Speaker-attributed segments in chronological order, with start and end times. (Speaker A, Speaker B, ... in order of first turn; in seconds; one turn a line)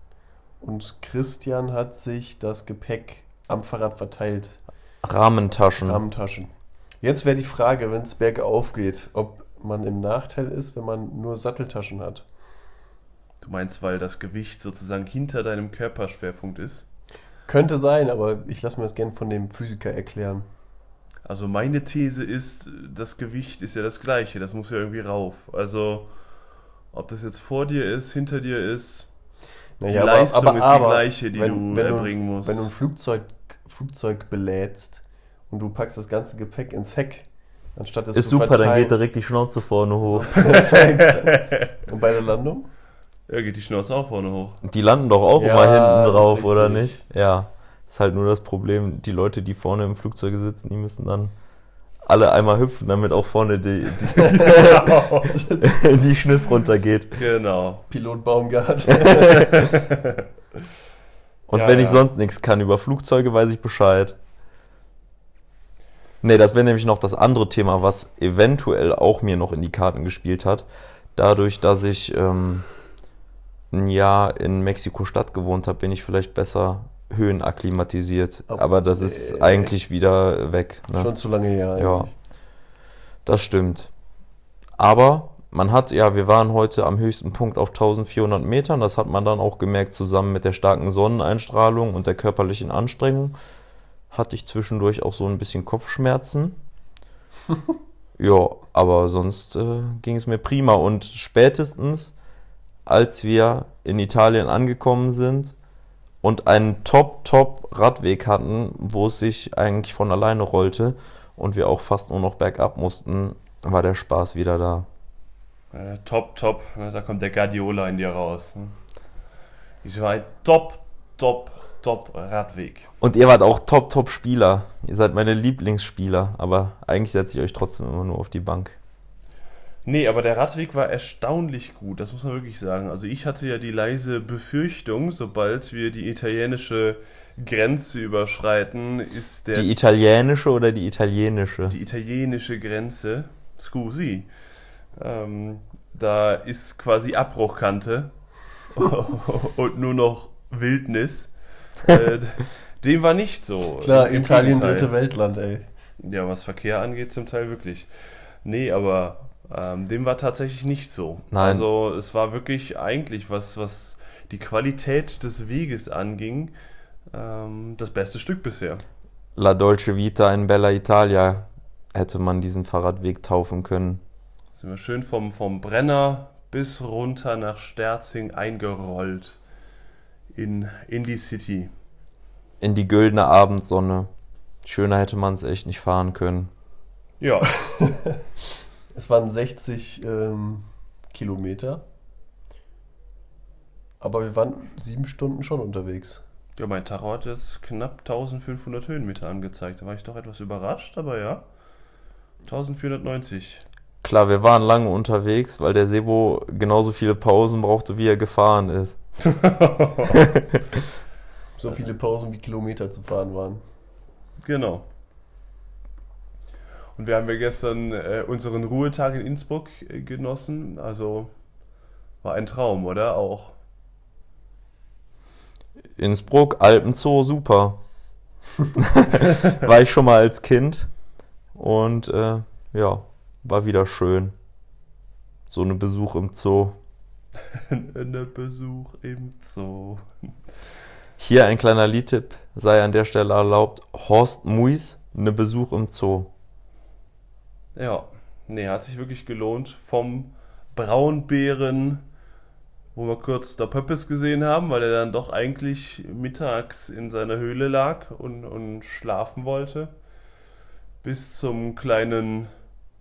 Speaker A: 0.6-4.6
Speaker B: 5.0-6.0
Speaker A: 5.8-6.5
Speaker A: 7.0-12.2
Speaker C: 13.4-16.9
Speaker A: 17.5-20.4
Speaker C: 21.2-26.1
Speaker C: 26.9-29.1
Speaker A: 29.8-39.0
Speaker C: 29.9-32.7
Speaker B: 38.1-40.3
Speaker A: 40.0-42.7
Speaker C: 40.4-41.8
Speaker C: 43.3-44.6
Speaker B: 44.6-51.3
Speaker A: 45.3-47.0
Speaker B: 52.0-55.1
Speaker A: 54.2-54.6
Speaker C: 54.5-55.4
Speaker A: 55.3-56.0
Speaker B: 55.6-57.1
Speaker C: 57.1-57.9
Speaker A: 57.9-59.6
Speaker B: 59.0-59.3
Speaker C: 59.3-60.3
Speaker B: 61.5-64.2
Speaker C: 61.5-62.1
Speaker B: 66.2-72.7
Speaker B: 73.7-81.1
Speaker A: 78.5-79.8
Speaker A: 81.0-82.2
Speaker B: 81.8-82.1
Speaker B: 83.3-83.9
Speaker B: 84.8-93.4
Speaker B: 94.1-96.6
Speaker B: 98.2-102.2
Speaker B: 102.9-105.5
Speaker B: 106.2-114.9
Speaker C: 115.7-118.8
Speaker C: 119.8-122.9
Speaker B: 123.0-128.8
Speaker C: 129.8-140.0
Speaker B: 139.5-141.8
Speaker C: 141.7-144.3
Speaker C: 145.0-148.1
Speaker C: 148.7-154.9
Speaker A: 153.8-155.7
Speaker C: 156.0-157.9
Speaker C: 158.4-166.5
Speaker B: 161.3-161.7
Speaker C: 167.1-168.8
Speaker B: 169.4-174.0
Speaker C: 174.5-179.4
Speaker C: 180.3-181.7
Speaker B: 182.6-184.1
Speaker B: 184.6-186.5
Speaker C: 187.2-187.6
Speaker A: 188.9-191.8
Speaker A: 194.0-196.2
Speaker C: 196.6-201.4
Speaker C: 202.4-203.7
Speaker B: 204.0-209.0
Speaker C: 209.2-210.3
Speaker B: 210.1-210.8
Speaker A: 211.6-213.6
Speaker C: 214.4-214.9
Speaker C: 216.9-221.3
Speaker C: 222.2-223.6
Speaker B: 226.0-227.8
Speaker B: 228.8-230.9
Speaker B: 231.6-234.3
Speaker B: 235.5-236.8
Speaker C: 237.5-240.0
Speaker B: 241.2-246.3
Speaker C: 247.8-252.0
Speaker C: 252.9-259.9
Speaker C: 261.0-262.5